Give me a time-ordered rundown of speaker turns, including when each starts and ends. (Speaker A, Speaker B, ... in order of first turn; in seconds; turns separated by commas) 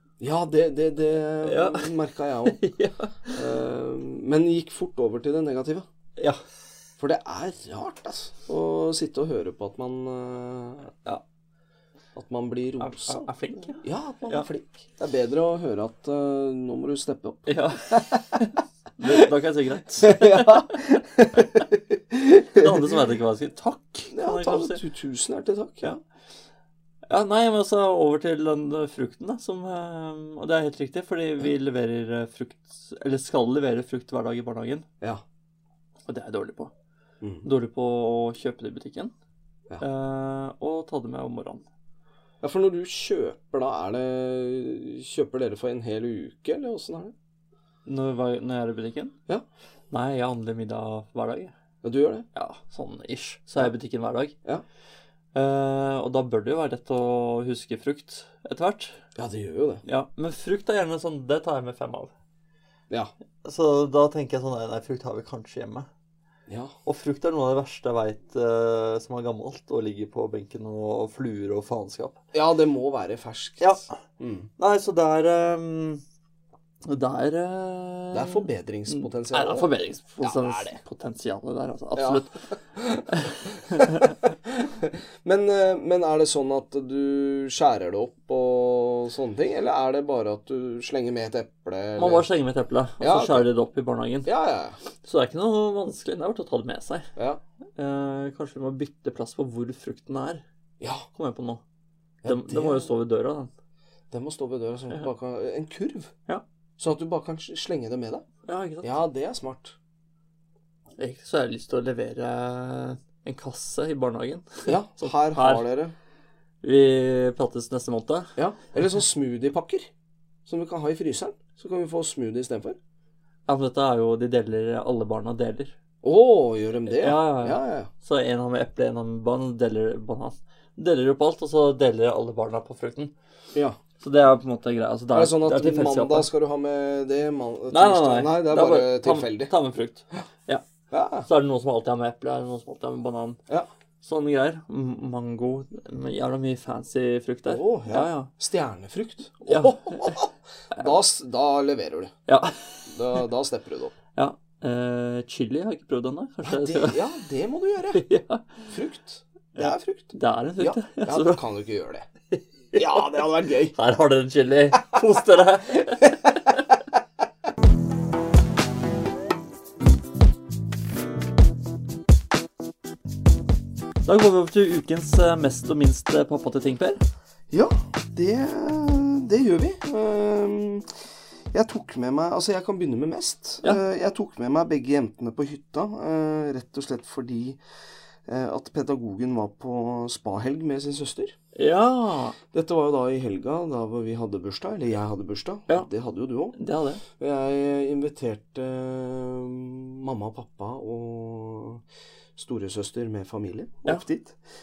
Speaker A: 0.2-2.6, Speaker B: 1.4-1.9, Speaker B: 2.5-3.4, Speaker A: 3.3-5.9, Speaker A: 7.0-10.9, Speaker A: 12.2-18.4, Speaker B: 12.8-14.5, Speaker B: 17.5-20.9, Speaker A: 20.0-22.9, Speaker B: 21.4-21.6, Speaker B: 22.5-24.8, Speaker A: 24.1-25.9, Speaker B: 27.1-34.9, Speaker B: 36.1-36.7, Speaker A: 37.2-37.5, Speaker B: 37.4-39.1, Speaker B: 39.8-41.6, Speaker A: 42.4-47.1, Speaker B: 47.9-49.1, Speaker B: 49.9-51.5, Speaker A: 51.8-52.3, Speaker B: 52.3-54.4, Speaker B: 55.3-59.0, Speaker A: 59.2-59.8, Speaker B: 59.9-62.1, Speaker B: 63.4-65.9, Speaker A: 66.5-66.7, Speaker B: 66.8-72.2, Speaker A: 72.3-74.5, Speaker B: 73.6-74.0, Speaker B: 74.6-76.0, Speaker B: 76.8-82.4, Speaker A: 78.1-80.8, Speaker A: 82.0-92.3, Speaker B: 83.1-84.2, Speaker B: 92.0-94.3, Speaker A: 93.0-93.5, Speaker A: 94.2-94.8, Speaker B: 95.0-97.1, Speaker B: 97.8-100.4, Speaker A: 100.8-101.1, Speaker B: 101.1-101.6, Speaker A: 102.2-102.9, Speaker B: 102.3-103.5, Speaker A: 104.1-106.1, Speaker A: 106.8-108.2, Speaker B: 108.5-108.9, Speaker A: 108.8-109.8, Speaker B: 111.0-115.7, Speaker A: 114.7-115.9, Speaker B: 116.6-118.3, Speaker A: 118.4-119.9, Speaker A: 120.5-122.8, Speaker B: 123.5-125.8, Speaker A: 126.0-127.9, Speaker B: 126.9-133.1, Speaker B: 134.0-136.3, Speaker A: 135.1-139.5, Speaker B: 137.7-140.6, Speaker A: 140.9-141.3, Speaker B: 141.2-143.4, Speaker B: 144.0-148.3, Speaker A: 147.5-152.1, Speaker B: 149.5-150.2, Speaker B: 152.3-152.9, Speaker A: 152.9-153.9, Speaker B: 154.2-157.0, Speaker A: 156.4-158.0, Speaker B: 157.9-158.6, Speaker A: 158.7-162.1, Speaker B: 159.6-161.4, Speaker B: 162.3-166.7, Speaker A: 162.7-163.8, Speaker B: 174.1-177.0, Speaker A: 177.5-180.9, Speaker A: 181.5-187.6, Speaker A: 188.3-191.3, Speaker B: 191.6-192.4, Speaker A: 192.5-196.6, Speaker B: 196.5-197.0, Speaker A: 197.1-201.8, Speaker A: 202.4-204.4